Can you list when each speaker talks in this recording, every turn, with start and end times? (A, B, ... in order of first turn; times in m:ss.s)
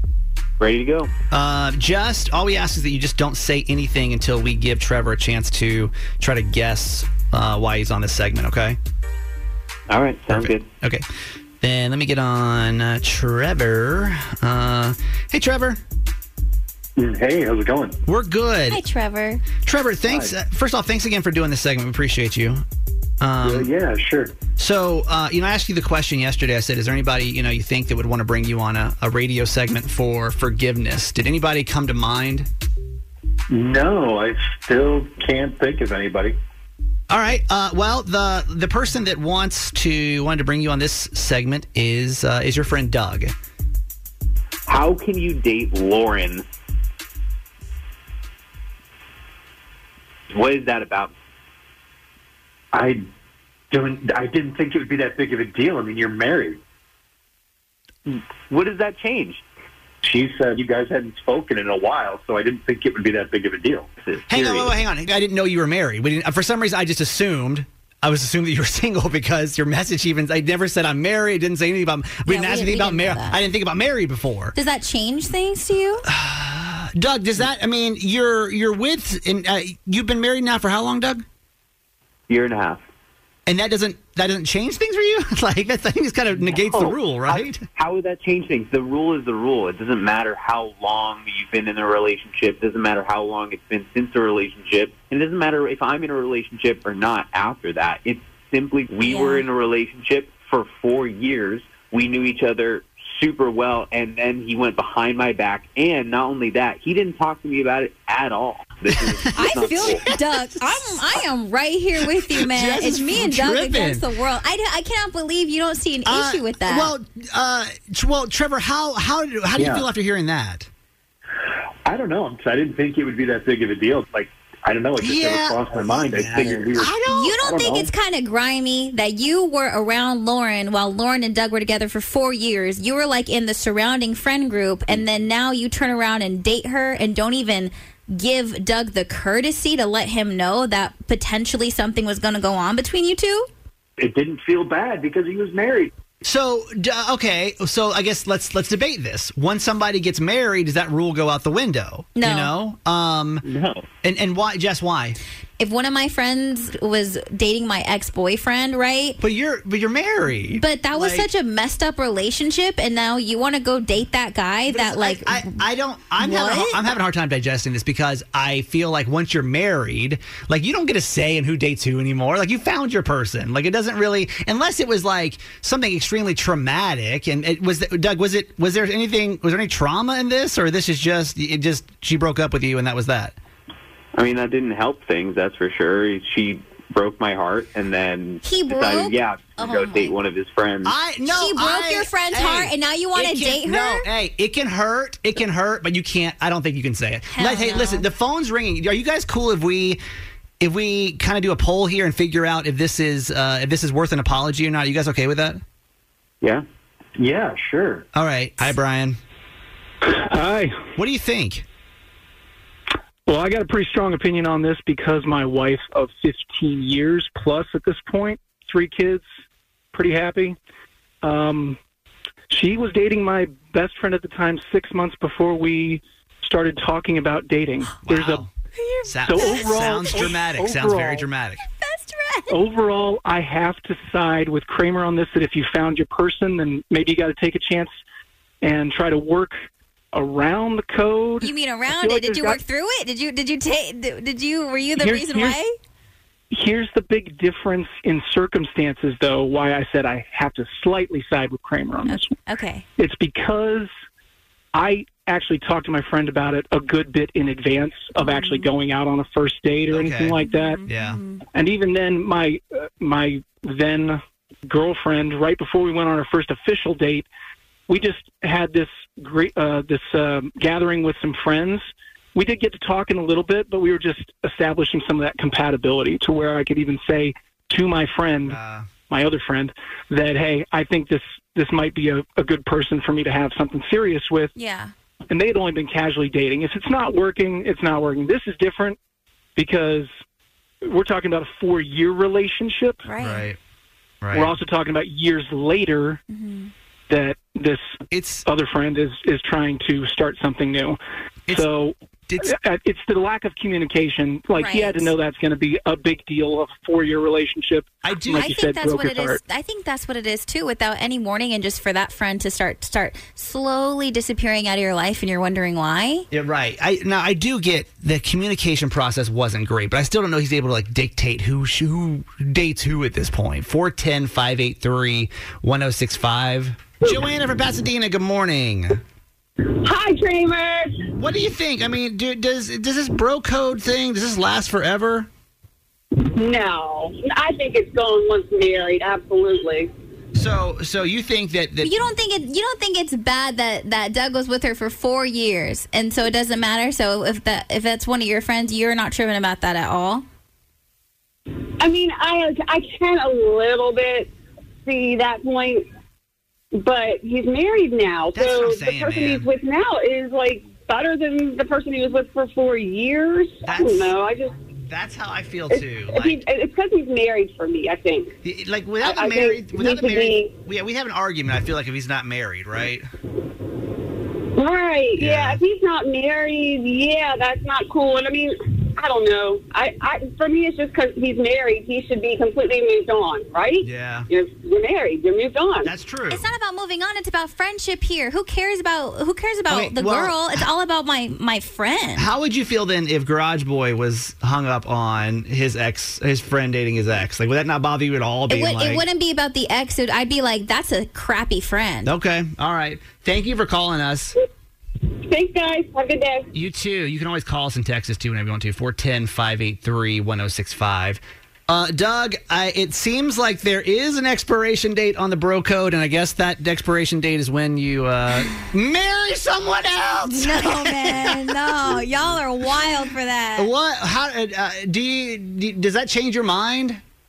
0:00.6-0:01.1 A
0:01.3-0:08.8 B
0:09.9-0:10.6 A
0:10.3-0:11.0 B
0:11.6-0:15.8 B
0:17.0-0:18.0 C
0:18.1-0:18.8 B
0:18.7-0:19.5 D
0:19.6-0:22.6 B
0:20.0-0:20.3 C
0:23.2-0:23.7 B
0:23.4-0:24.3 C
0:24.6-0:32.5 B
0:33.5-0:36.4 C
0:37.1-0:43.3 B
0:44.7-0:46.4 A
0:50.3-0:51.1 A
0:52.7-0:53.0 C
0:53.7-0:56.6 C
0:58.1-0:59.4 A
1:00.0-1:03.9 C
1:04.0-1:04.8 A
1:04.3-1:14.6 B
1:12.3-1:13.4 D
1:14.6-1:16.0 D
1:16.1-1:21.2 B
1:22.3-1:22.8 A
1:23.5-1:27.6 B
1:26.5-1:50.0 A
1:39.0-1:39.5 D
1:48.9-1:51.2 B
1:49.4-1:57.0 D
1:52.0-1:54.0 B
1:56.1-2:00.7 B
1:59.6-1:59.9 C
2:01.8-2:07.9 C
2:05.0-2:07.5 B
2:07.1-2:23.5 D
2:24.0-2:25.9 C
2:26.2-2:33.4 B
2:32.2-2:32.5 D
2:33.5-2:33.8 A
2:34.0-2:35.2 B
2:35.6-2:39.2 D
2:39.2-2:41.3 B
2:40.6-2:45.7 D
2:44.7-3:03.4 B
2:46.2-2:47.0 D
3:04.2-3:10.9 A
3:08.4-3:10.2 D
3:10.8-3:20.0 B
3:11.2-3:14.1 D
3:17.3-3:18.1 D
3:20.6-3:25.6 B
3:27.2-3:28.0 C
3:28.2-3:29.2 B
3:30.0-3:30.8 E
3:31.0-3:31.7 B
3:33.3-3:39.2 E
3:39.9-3:40.6 E
3:41.2-3:41.8 E
3:42.5-3:48.5 E
3:48.0-3:48.5 B
3:48.8-3:49.6 D
3:49.1-3:51.6 B
3:49.2-3:51.2 E
3:51.7-3:52.6 D
3:52.5-3:57.9 E
3:58.6-4:02.6 E
4:01.4-4:05.7 D
4:05.0-4:05.6 E
4:06.5-4:12.4 E
4:12.1-4:12.8 D
4:13.0-4:13.9 E
4:14.7-4:20.9 E
4:19.9-4:21.2 B
4:21.5-4:27.3 E
4:27.9-4:38.6 E
4:38.4-4:38.9 B
4:39.1-4:44.5 E
4:44.6-4:44.9 D
4:45.3-4:49.0 E
4:49.6-4:50.1 E
4:50.8-4:53.1 E
4:53.1-4:53.5 D
4:53.2-4:53.6 B
4:54.2-4:54.6 B
4:54.3-4:56.2 E
4:56.3-4:56.7 D
4:57.1-4:57.9 E
4:58.1-4:58.5 B
4:58.5-5:09.4 E
5:02.3-5:02.5 B
5:04.6-5:05.1 D
5:08.0-5:08.5 B
5:08.4-5:16.3 D
5:16.3-5:29.0 B
5:29.6-5:31.0 F
5:31.1-5:35.3 B
5:36.2-5:39.9 F
5:40.4-5:41.9 B
5:41.8-5:50.2 D
5:51.8-5:54.3 F
5:54.9-5:55.9 F
5:56.7-6:04.6 F
5:58.3-5:59.5 B
6:03.6-6:04.2 B
6:04.9-6:06.4 B
6:05.7-6:08.3 F
6:08.4-6:13.1 B
6:09.0-6:10.5 F
6:14.5-6:25.9 F
6:15.2-6:15.6 B
6:23.8-6:24.3 B
6:25.8-6:26.4 B
6:26.3-6:32.3 D
6:29.7-6:30.6 B
6:32.2-6:39.0 B
6:38.5-6:42.1 D
6:42.0-6:44.4 B
6:45.2-6:46.5 F
6:46.5-7:01.9 B
7:00.2-7:03.7 D
7:03.6-7:07.0 B